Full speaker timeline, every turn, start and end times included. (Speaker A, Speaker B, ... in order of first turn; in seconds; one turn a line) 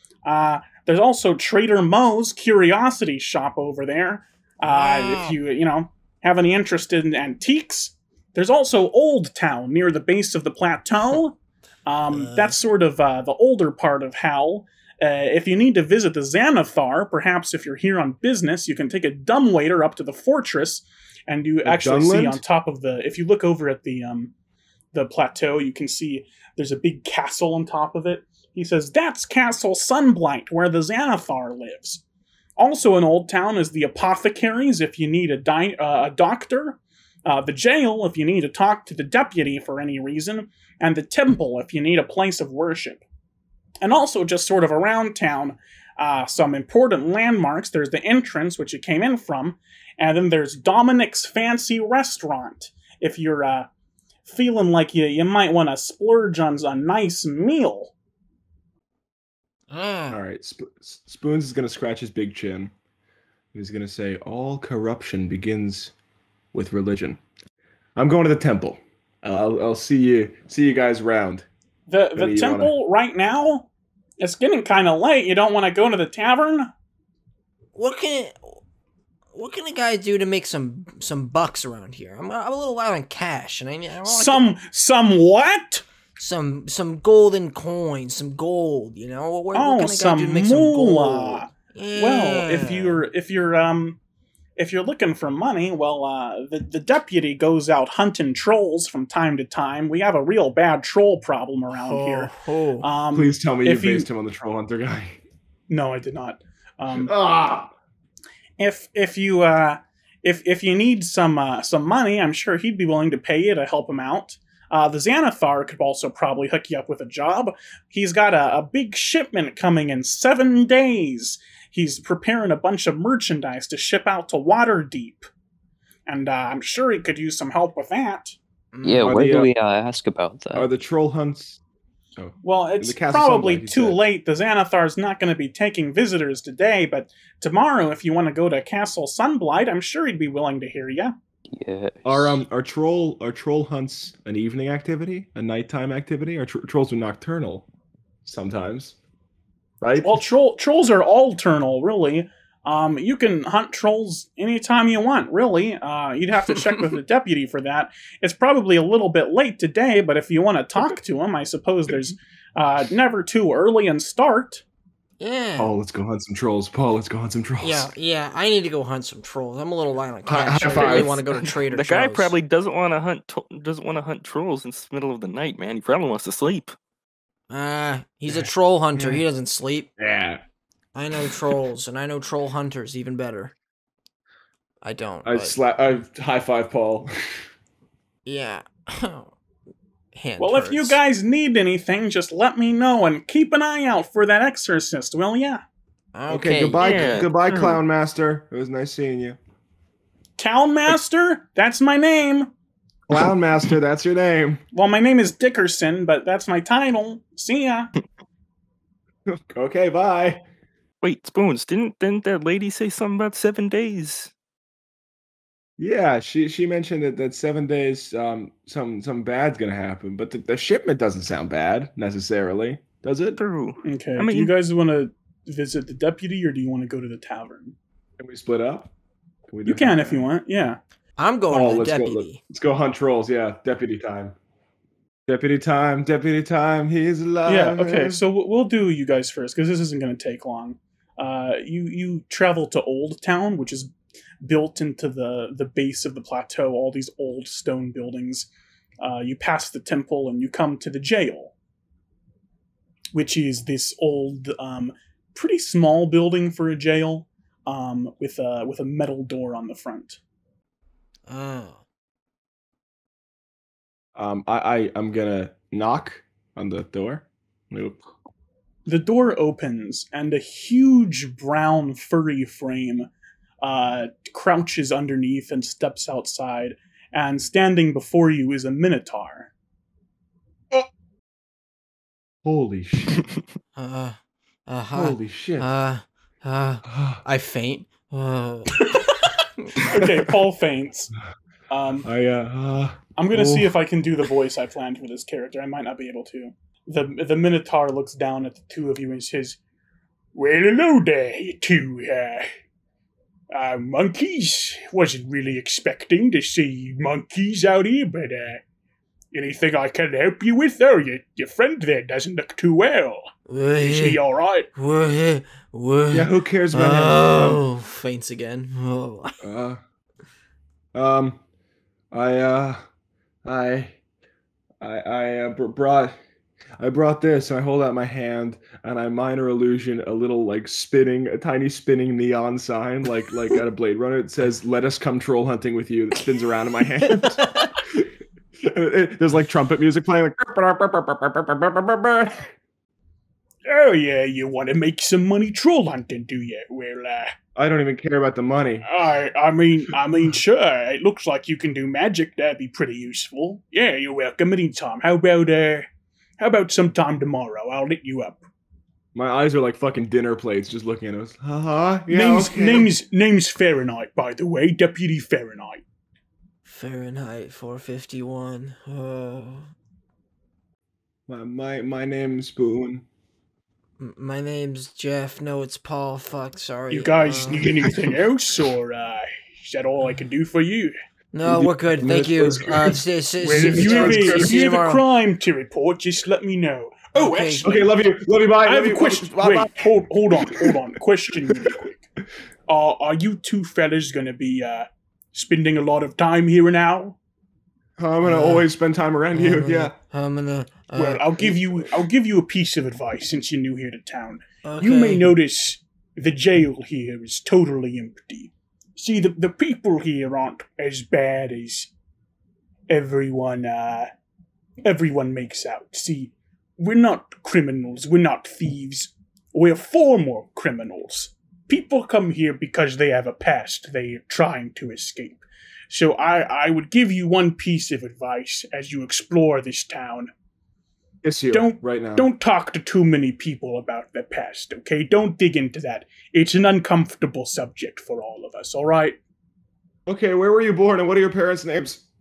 Speaker A: 0.2-24.3
Speaker B: 4.6-5.4
Speaker B: 12.1-12.6
Speaker C: 21.6-22.4
Speaker A: 24.9-32.0
Speaker A: 32.6-43.0
Speaker A: 43.8-53.7
Speaker A: 54.2-57.9
Speaker B: 59.7-60.2
Speaker C: 60.1-62.7
Speaker C: 63.5-65.9
Speaker C: 66.5-67.2
Speaker C: 68.0-71.5
Speaker A: 71.9-73.7
Speaker C: 72.2-72.7
Speaker A: 74.2-76.7
Speaker B: 77.7-78.6
Speaker B: 79.3-84.6
Speaker A: 84.0-85.8
Speaker B: 86.2-93.0
Speaker A: 89.5-94.0
Speaker A: 94.6-104.1
Speaker B: 101.7-102.9
Speaker C: 103.1-105.2
Speaker A: 105.7-107.1
Speaker C: 106.9-107.7
Speaker A: 108.6-125.3
Speaker A: 126.1-128.4
Speaker B: 128.7-129.1
Speaker D: 128.8-130.7
Speaker C: 129.0-129.5
Speaker C: 130.5-131.6
Speaker C: 132.2-134.0
Speaker A: 132.4-141.1
Speaker D: 141.6-142.4
Speaker C: 142.0-147.6
Speaker C: 148.2-148.9
Speaker C: 149.8-150.2
Speaker A: 150.0-164.6
Speaker B: 165.2-165.7
Speaker C: 165.6-167.9
Speaker B: 167.6-172.3
Speaker C: 170.2-171.2
Speaker E: 171.6-176.7
Speaker B: 177.5-179.9
Speaker C: 178.9-179.2
Speaker C: 180.0-180.4
Speaker B: 180.9-183.5
Speaker B: 184.8-185.6
Speaker C: 185.2-187.1
Speaker B: 188.2-189.3
Speaker B: 190.1-191.0
Speaker A: 190.4-195.6
Speaker B: 196.1-197.3
Speaker C: 196.3-199.4
Speaker E: 196.8-197.8
Speaker A: 200.4-202.5
Speaker C: 203.1-204.6
Speaker A: 204.7-207.9
Speaker C: 209.5-210.4
Speaker E: 211.0-214.3
Speaker C: 215.8-223.4
Speaker E: 223.3-224.5
Speaker A: 223.8-227.7
Speaker C: 228.2-228.9
Speaker C: 229.5-230.3
Speaker A: 229.6-230.8
Speaker B: 231.2-232.4
Speaker C: 231.5-234.3
Speaker C: 235.3-238.2
Speaker A: 237.4-248.5
Speaker A: 249.0-251.5
Speaker A: 253.1-260.2
Speaker B: 261.3-261.8
Speaker C: 264.1-268.0
Speaker A: 268.9-273.1
Speaker A: 273.6-279.5
Speaker C: 282.4-283.2
Speaker B: 283.8-288.8
Speaker C: 284.9-285.7
Speaker C: 286.8-287.2
Speaker A: 289.9-291.1
Speaker C: 289.9-290.2
Speaker A: 291.7-292.1
Speaker C: 292.0-293.8
Speaker A: 293.1-299.6
Speaker A: 300.3-302.5
Speaker A: 303.5-308.6
Speaker A: 309.3-313.3
Speaker B: 313.5-314.2
Speaker A: 313.8-314.7
Speaker B: 314.7-319.3
Speaker C: 316.1-317.6
Speaker C: 319.4-319.8
Speaker C: 320.9-321.4
Speaker C: 322.1-322.8
Speaker C: 323.4-324.0
Speaker C: 324.8-326.1
Speaker C: 326.8-338.0
Speaker B: 337.0-337.7
Speaker C: 338.6-342.5
Speaker A: 343.6-347.3
Speaker C: 347.5-348.9
Speaker A: 348.8-355.9
Speaker A: 356.4-358.4
Speaker C: 359.1-362.9
Speaker A: 362.1-365.8
Speaker B: 366.6-369.7
Speaker C: 371.3-373.0
Speaker B: 374.0-377.7
Speaker A: 376.9-380.9
Speaker B: 381.3-385.0
Speaker C: 381.4-384.8
Speaker A: 383.4-387.9
Speaker B: 387.1-387.7
Speaker C: 387.6-390.8
Speaker A: 388.6-392.0
Speaker C: 391.4-391.8
Speaker A: 392.7-397.2
Speaker C: 398.0-399.9
Speaker B: 398.2-398.7
Speaker B: 399.3-401.8
Speaker A: 400.9-411.9
Speaker B: 404.6-405.3
Speaker A: 412.9-414.1
Speaker A: 414.8-430.3
Speaker C: 431.2-432.3
Speaker A: 431.5-439.2
Speaker C: 440.1-442.0